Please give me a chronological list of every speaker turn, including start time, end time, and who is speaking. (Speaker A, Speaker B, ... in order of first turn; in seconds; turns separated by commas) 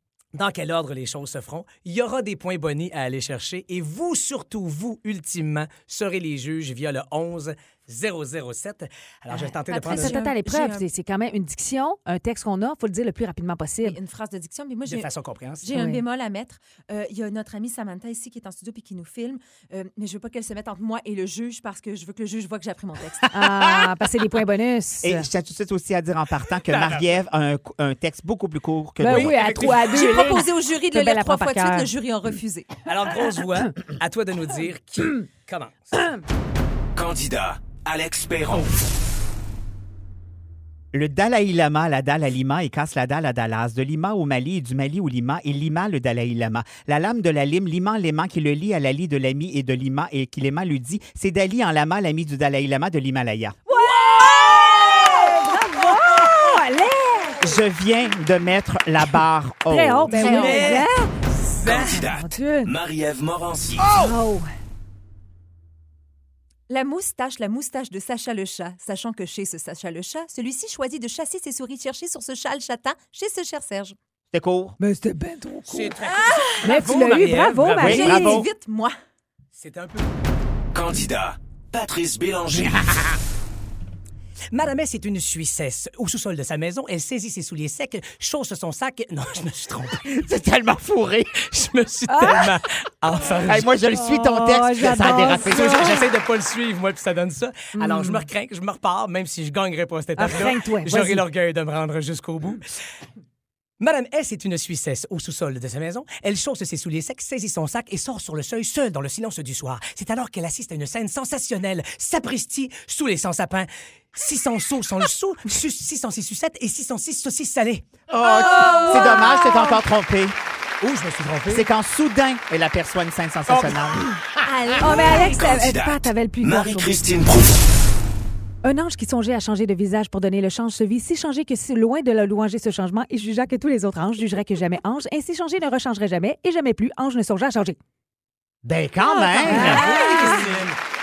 Speaker A: 0.3-10.2, Speaker B: 9.3-10.8, Speaker C: 9.8-14.0, Speaker B: 13.8-15.1, Speaker A: 14.8-15.7, Speaker B: 15.6-23.4, Speaker C: 15.7-16.0, Speaker C: 23.3-25.3, Speaker D: 25.0-29.7, Speaker A: 26.6-27.1, Speaker C: 29.0-31.9, Speaker A: 29.0-30.3, Speaker B: 29.8-32.8, Speaker A: 32.8-36.0, Speaker E: 36.9-38.7, Speaker D: 40.9-53.6, Speaker C: 53.7-57.5, Speaker D: 57.4-60.4, Speaker C: 59.7-62.7, Speaker B: 60.1-60.9, Speaker A: 60.1-60.9, Speaker E: 61.6-64.1, Speaker C: 63.9-64.5, Speaker B: 66.7-74.0, Speaker D: 74.3-74.8, Speaker C: 74.8-75.9, Speaker A: 75.7-78.2, Speaker B: 76.0-76.8, Speaker C: 76.6-78.4, Speaker D: 77.8-78.5, Speaker B: 77.8-78.9, Speaker A: 79.5-80.1, Speaker E: 80.7-83.2, Speaker A: 84.5-90.0, Speaker D: 90.0-91.5, Speaker A: 91.5-93.7, Speaker C: 92.1-92.5, Speaker D: 93.4-96.0, Speaker C: 93.9-96.0, Speaker A: 95.3-102.6, Speaker C: 97.7-98.3, Speaker C: 100.2-101.2, Speaker A: 103.8-117.9, Speaker D: 118.1-120.3, Speaker B: 118.2-119.3, Speaker C: 118.2-119.8, Speaker A: 120.8-121.7, Speaker D: 121.5-124.1, Speaker A: 123.5-123.8, Speaker B: 124.4-125.6, Speaker C: 124.8-127.0, Speaker E: 124.9-127.6, Speaker C: 128.6-137.8, Speaker D: 138.6-140.0, Speaker B: 139.0-140.6, Speaker A: 139.4-140.8, Speaker C: 139.5-140.5